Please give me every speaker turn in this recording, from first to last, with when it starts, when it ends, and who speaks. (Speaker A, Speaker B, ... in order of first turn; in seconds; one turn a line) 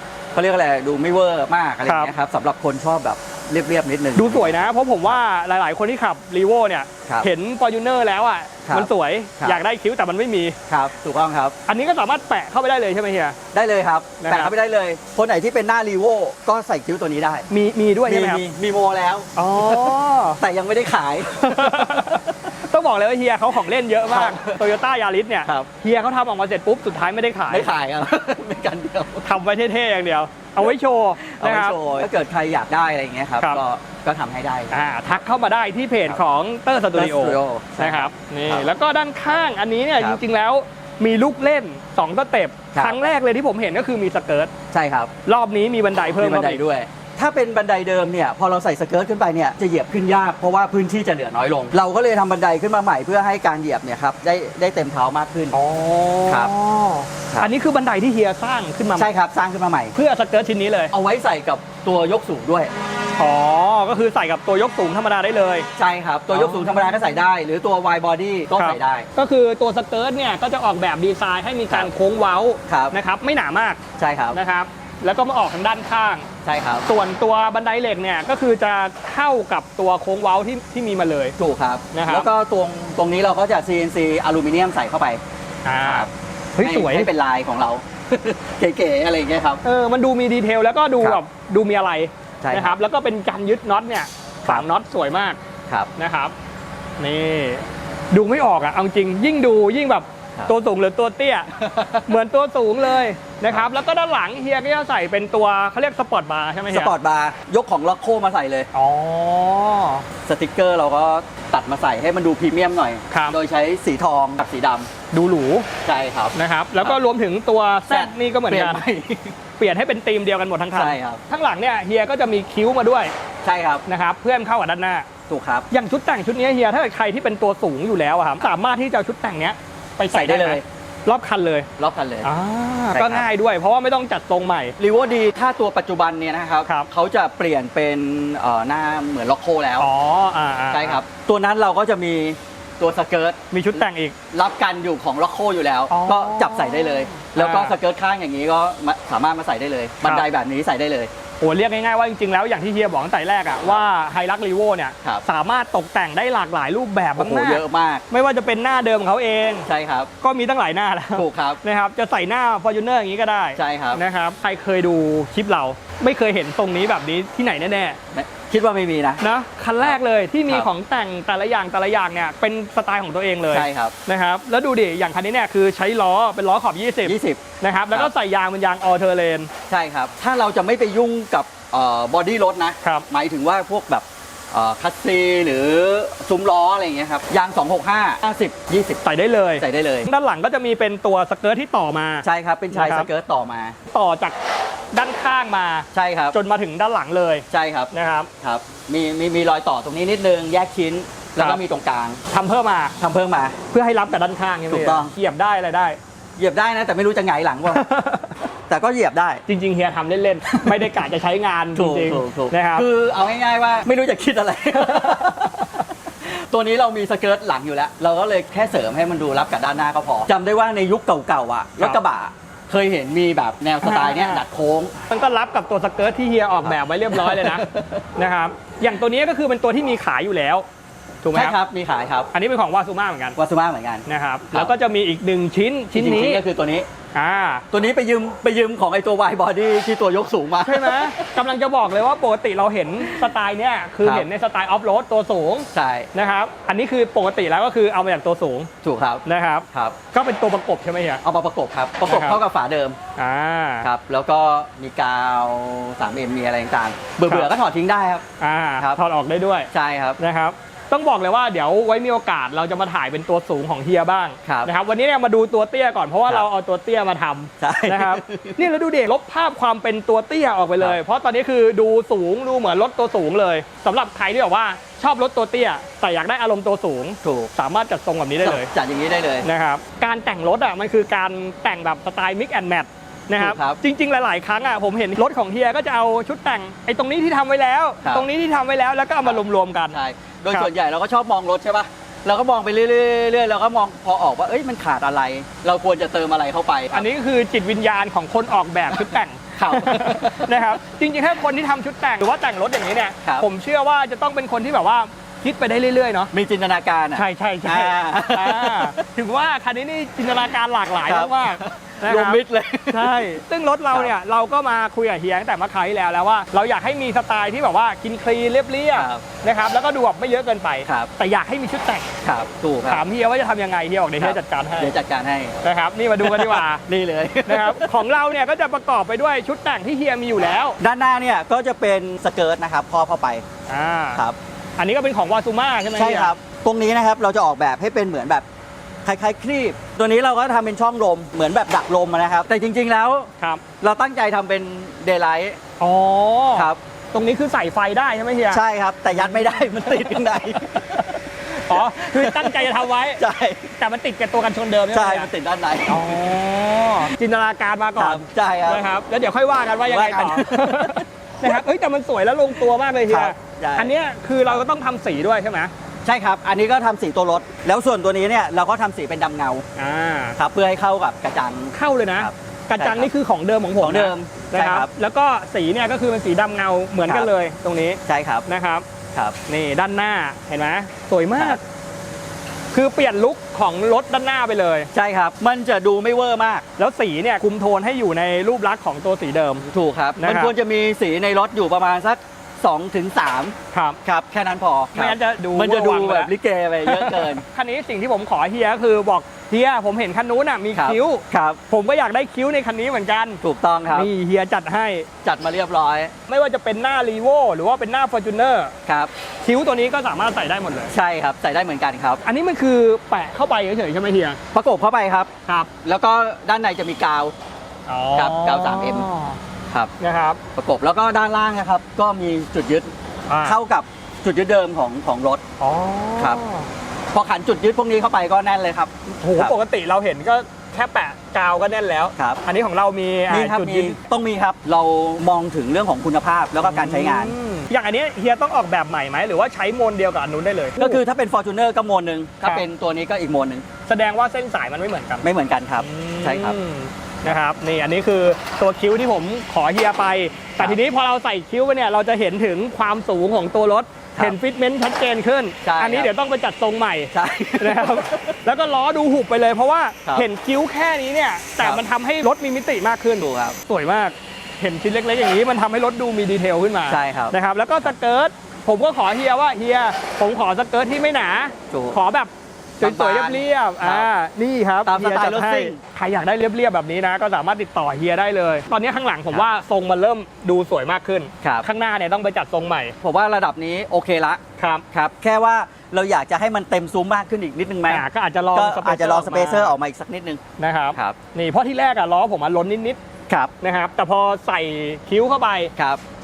Speaker A: 0.3-4.5
Speaker B: 1.8-2.1
Speaker B: 4.2-10.6
Speaker A: 8.7-9.6
Speaker A: 10.7-11.5
Speaker B: 11.7-13.4
Speaker A: 13.5-17.5
Speaker B: 14.2-14.5
Speaker B: 17.5-18.4
Speaker A: 18.1-22.4
Speaker B: 19.3-20.4
Speaker B: 21.3-27.7
Speaker A: 24.1-24.6
Speaker A: 27.5-29.3
Speaker B: 29.2-32.1
Speaker A: 30.6-34.8
Speaker B: 34.7-44.5
Speaker A: 36.9-38.7
Speaker A: 44.7-45.1
Speaker B: 45.2-46.6
Speaker A: 46.2-55.5
Speaker B: 55.5-59.1
Speaker A: 59.0-59.9
Speaker B: 59.9-60.9
Speaker A: 60.9-62.7
Speaker B: 63.2-65.7
Speaker A: 65.8-69.1
Speaker B: 66.3-67.2
Speaker B: 68.5-73.8
Speaker A: 72.7-72.9
Speaker A: 74.0-74.4
Speaker B: 74.3-76.3
Speaker A: 76.4-76.8
Speaker B: 76.8-81.3
Speaker A: 81.4-85.2
Speaker B: 81.9-82.3
Speaker B: 85.7-87.1
Speaker A: 85.8-86.1
Speaker A: 86.6-89.6
Speaker B: 89.6-95.4
Speaker A: 92.4-92.8
Speaker B: 96.0-96.3
Speaker B: 97.0-101.5
Speaker A: 101.5-102.1
Speaker B: 102.1-106.9
Speaker A: 106.7-108.7
Speaker B: 108.7-110.0
Speaker A: 110.2-114.9
Speaker B: 113.1-113.3
Speaker B: 115.1-115.7
Speaker A: 115.8-117.0
Speaker B: 116.3-118.8
Speaker A: 117.9-119.3
Speaker B: 119.6-123.1
Speaker A: 120.7-121.2
Speaker A: 123.4-123.8
Speaker B: 123.8-125.1
Speaker A: 125.3-125.7
Speaker B: 125.7-131.7
Speaker A: 130.1-130.6
Speaker A: 131.8-132.3
Speaker B: 132.2-134.8
Speaker A: 132.9-133.2
Speaker A: 134.8-139.9
Speaker B: 139.8-141.0
Speaker A: 140.7-143.4
Speaker B: 143.5-144.2
Speaker A: 144.3-151.1
Speaker B: 145.9-147.8
Speaker B: 151.4-159.7
Speaker A: 157.2-158.0
Speaker A: 159.7-160.1
Speaker B: 160.2-168.0
Speaker A: 161.1-161.6
Speaker A: 163.6-164.0
Speaker A: 168.1-169.2
Speaker B: 169.2-179.5
Speaker A: 169.8-170.7
Speaker A: 173.5-173.9
Speaker A: 177.0-177.4
Speaker A: 179.7-189.0
Speaker B: 189.0-193.1
Speaker A: 189.6-190.1
Speaker A: 192.2-193.8
Speaker B: 193.9-194.4
Speaker B: 194.9-198.3
Speaker A: 195.9-196.3
Speaker A: 197.5-202.2
Speaker B: 202.3-202.9
Speaker A: 203.0-203.6
Speaker B: 203.7-206.0
Speaker A: 204.7-205.1
Speaker A: 206.4-207.8
Speaker B: 207.7-208.3
Speaker A: 208.7-209.4
Speaker B: 209.4-212.9
Speaker A: 210.5-210.8
Speaker A: 211.8-224.9
Speaker B: 223.8-224.4
Speaker B: 225.1-230.7
Speaker A: 226.7-228.0
Speaker B: 231.2-231.6
Speaker A: 231.3-232.3
Speaker B: 232.3-233.4
Speaker A: 233.3-234.7
Speaker B: 234.1-236.4
Speaker A: 235.9-236.9
Speaker B: 237.1-237.7
Speaker A: 237.7-241.3
Speaker B: 240.6-248.7
Speaker A: 245.7-246.1
Speaker A: 248.8-249.9
Speaker B: 249.2-251.2
Speaker A: 251.2-253.0
Speaker B: 252.1-252.4
Speaker B: 253.2-253.9
Speaker A: 253.8-258.2
Speaker B: 257.2-257.5
Speaker B: 258.4-278.7
Speaker A: 259.7-260.2
Speaker A: 264.4-264.7
Speaker A: 267.6-268.6
Speaker A: 277.2-277.5
Speaker A: 278.4-279.4
Speaker B: 279.4-290.0
Speaker A: 283.4-283.8
Speaker A: 289.9-297.1
Speaker B: 296.9-306.3
Speaker A: 298.9-300.7
Speaker A: 306.3-309.0
Speaker B: 307.1-322.1
Speaker A: 311.0-314.1
Speaker A: 318.9-319.2
Speaker A: 320.8-321.1
Speaker A: 322.2-323.0
Speaker B: 322.8-324.9
Speaker A: 324.2-325.6
Speaker B: 325.6-326.8
Speaker A: 326.2-327.9
Speaker B: 327.4-330.8
Speaker A: 330.8-333.4
Speaker B: 333.7-334.2
Speaker B: 334.8-336.3
Speaker A: 335.9-338.4
Speaker A: 339.0-345.6
Speaker B: 345.8-353.2
Speaker A: 348.5-351.1
Speaker A: 351.7-353.7
Speaker B: 353.8-355.3
Speaker A: 354.9-356.1
Speaker B: 355.9-365.7
Speaker A: 358.0-358.8
Speaker A: 359.8-361.6
Speaker A: 362.6-363.9
Speaker A: 366.0-369.6
Speaker B: 369.8-370.4
Speaker A: 370.4-373.1
Speaker B: 371.7-378.8
Speaker A: 373.8-374.9
Speaker A: 378.1-378.4
Speaker B: 379.5-381.6
Speaker B: 382.7-384.9
Speaker A: 384.9-386.6
Speaker B: 386.8-389.6
Speaker A: 389.6-397.4
Speaker B: 390.2-390.5
Speaker B: 393.7-394.0
Speaker B: 394.9-396.3
Speaker B: 396.8-403.4
Speaker A: 400.7-401.6
Speaker A: 403.4-404.1
Speaker B: 403.9-405.1
Speaker A: 405.2-406.1
Speaker B: 406.3-408.7
Speaker B: 409.4-410.9
Speaker A: 410.9-412.2
Speaker B: 412.2-414.4
Speaker A: 414.5-415.3
Speaker A: 415.8-417.3
Speaker B: 417.9-419.4
Speaker A: 418.1-419.1
Speaker B: 420.0-420.4
Speaker A: 420.5-422.9
Speaker B: 423.3-423.6
Speaker A: 423.4-425.4
Speaker B: 425.6-426.7
Speaker A: 427.1-429.5
Speaker B: 429.2-434.0
Speaker A: 433.3-437.3
Speaker B: 436.6-441.0
Speaker A: 440.8-443.6
Speaker B: 443.9-445.3
Speaker A: 445.2-446.6
Speaker B: 445.8-482.9
Speaker A: 455.6-456.1
Speaker A: 457.1-458.4
Speaker A: 463.2-463.6
Speaker A: 466.9-467.9
Speaker A: 471.7-472.0
Speaker A: 472.8-474.1
Speaker A: 474.9-475.8
Speaker A: 483.0-484.4
Speaker B: 484.6-484.8
Speaker A: 484.9-490.4
Speaker B: 487.9-489.7
Speaker B: 490.6-493.0
Speaker B: 493.6-495.7